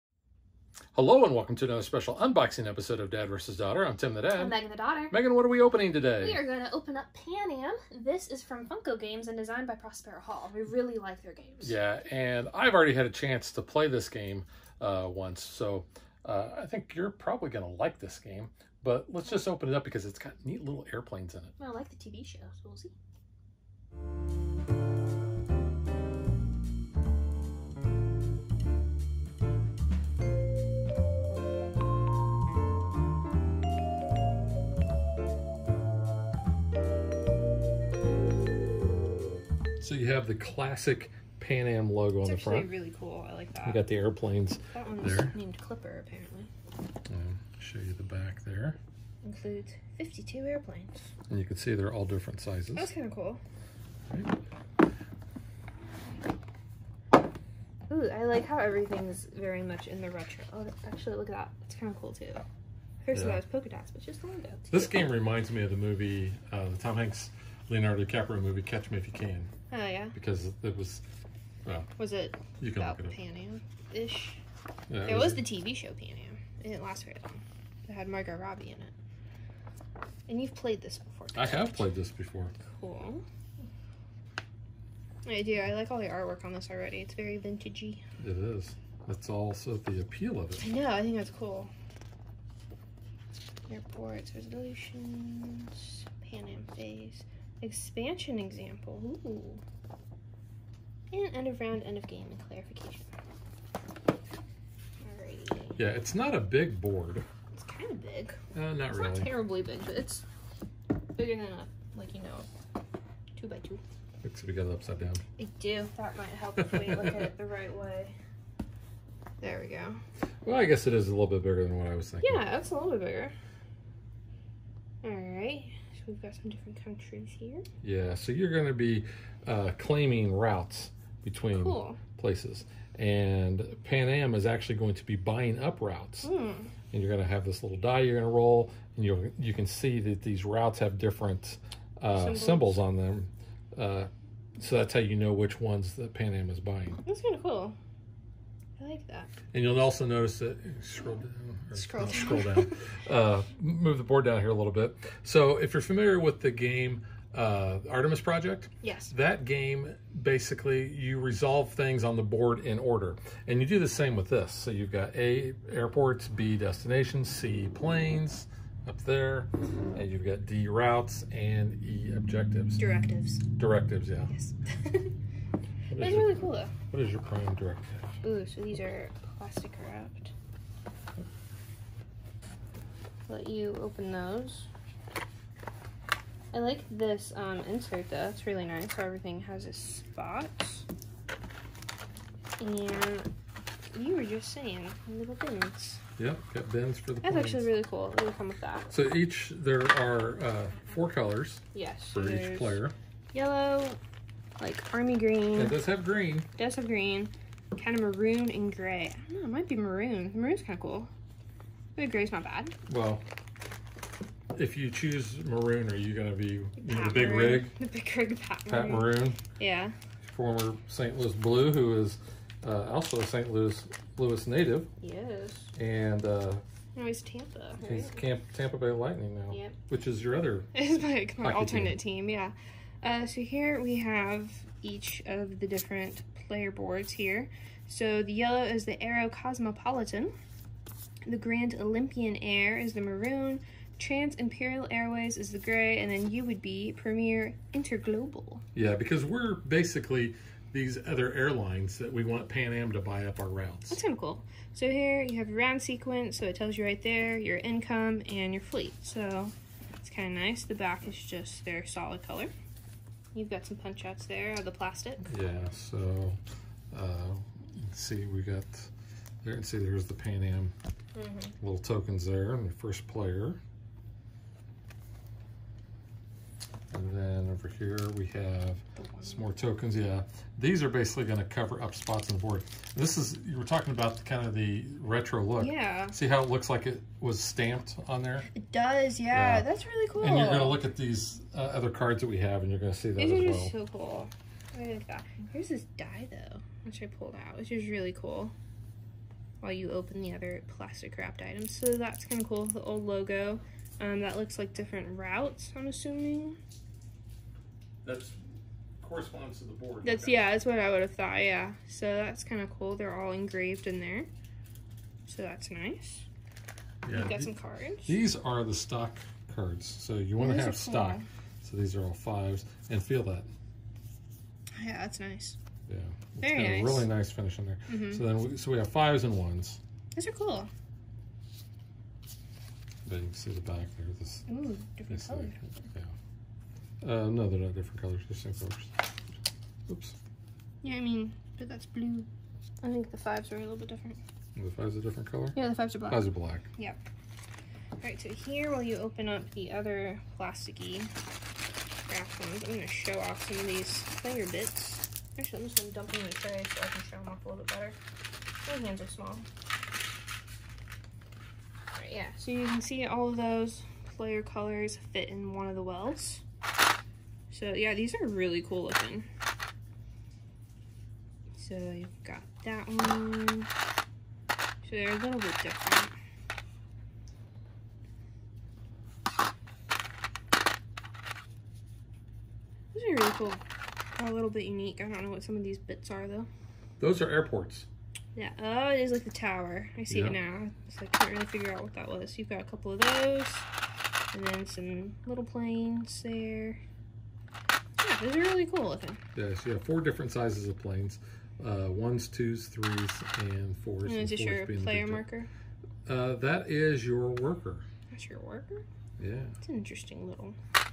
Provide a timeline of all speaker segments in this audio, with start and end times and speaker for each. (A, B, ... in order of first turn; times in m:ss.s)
0:01.0-0:04.6 A
0:04.3-0:05.2 B
0:05.1-0:06.4 A
0:06.2-0:11.8 B
0:11.6-0:21.5 A
0:21.6-0:22.9 B
0:39.8-0:42.7 A
0:42.2-0:43.9 B
0:43.6-0:45.4 A
0:44.7-0:46.5 B
0:47.1-0:48.8 A
0:49.2-0:51.1 B
0:51.3-0:52.9 A
0:52.8-0:53.4 B
0:57.9-1:02.4 B
1:03.0-1:05.0 B
1:03.1-1:03.4 A
1:04.7-1:09.5 A
1:09.7-1:10.2 B
1:10.1-1:11.0 A
1:12.0-1:14.4 B
1:12.6-1:13.2 A
1:14.9-1:15.5 A
1:15.0-1:18.9 B
1:20.3-1:21.8 B
1:21.3-1:22.6 A
1:22.6-1:23.2 B
1:25.2-1:28.0 B
1:28.2-1:30.7 A
1:30.6-1:31.7 B
1:33.7-1:39.6 B
1:41.1-1:43.1 B
1:45.0-1:45.8 B
1:45.8-1:47.2 A
1:47.5-1:48.4 B
1:48.5-1:49.3 A
1:48.9-1:50.2 B
1:51.1-1:52.5 B
1:53.3-1:53.8 B
1:54.2-1:55.2 A
1:55.4-1:58.2 B
1:56.6-1:57.3 A
1:59.4-2:00.0 B
2:00.4-2:02.5 A
2:02.2-2:03.3 B
2:05.0-2:07.6 B
2:07.8-2:16.3 A
2:11.5-2:12.0 B
2:16.2-2:16.7 B
2:16.9-2:27.0 A
2:22.1-2:22.8 B
2:27.0-2:27.8 B
2:28.8-2:29.3 B
2:29.5-2:52.8 A
2:31.8-2:32.8 B
2:38.8-2:39.1 B
2:52.8-2:53.4 B
2:53.6-2:54.3 A
2:54.3-2:55.1 B
2:55.9-2:58.2 A
2:55.9-2:56.7 B
2:58.2-3:00.3 B
3:03.3-3:04.7 B
3:06.5-3:10.8 B
3:12.6-3:13.3 B
3:13.9-3:16.0 B
3:16.2-3:17.7 A
3:17.2-3:18.9 B
3:18.9-3:22.9 A
3:21.7-3:24.0 B
3:24.6-3:25.8 B
3:25.5-3:26.5 A
3:26.6-3:31.1 B
3:32.0-3:32.8 B
3:32.8-3:33.2 A
3:34.5-3:37.8 A
3:36.8-3:39.9 B
3:38.7-3:39.4 A
3:40.2-3:44.9 A
3:45.0-3:45.7 B
3:45.8-3:46.6 A
3:46.9-3:48.2 B
3:47.8-3:50.7 A
3:50.7-4:00.3 B
3:51.4-3:52.0 A
4:01.2-4:08.6 B
4:08.7-4:14.0 A
4:13.9-4:22.5 B
4:23.3-4:25.4 B
4:25.2-4:26.4 A
4:26.9-4:28.9 A
4:29.4-4:30.8 A
4:31.2-4:31.5 B
4:31.6-4:33.6 A
4:36.9-4:48.5 A
4:39.0-4:39.5 B
4:45.6-4:46.2 B
4:48.5-4:50.8 B
4:49.3-4:53.7 A
4:53.2-4:58.5 B
4:59.6-5:06.6 B
5:08.0-5:08.4 A
5:09.0-5:10.5 A
5:10.0-5:14.3 B
5:15.3-5:16.3 B
5:17.0-5:17.5 A
5:17.1-5:18.2 B
5:18.1-5:23.5 A
5:20.4-5:21.3 B
5:24.8-5:25.6 B
5:25.9-5:29.8 A
5:26.4-5:27.1 B
5:27.9-5:28.2 B
5:30.1-5:30.7 B
5:33.0-5:34.5 A
5:34.5-5:35.8 B
5:35.1-5:36.1 A
5:37.0-5:38.9 A
5:39.9-5:40.2 A
5:40.8-5:42.3 B
5:42.8-5:44.2 B
5:44.6-5:46.7 A
5:45.5-5:47.0 B
5:48.0-5:51.1 B
5:52.1-5:58.0 B
5:58.6-5:59.5 B
6:02.0-6:06.4 B
6:07.5-6:09.3 B
6:11.6-6:13.7 B
6:14.8-6:16.1 B
6:22.9-6:23.6 B
6:24.2-6:26.5 B
6:27.0-6:27.9 A
6:28.4-6:33.7 B
6:30.1-6:30.4 A
6:34.3-6:36.8 B
6:38.0-6:39.2 B
6:39.4-6:45.3 A
6:44.0-6:45.5 B
6:46.1-6:47.8 A
6:48.1-6:48.8 B
6:49.2-6:49.6 A
6:49.6-6:50.6 B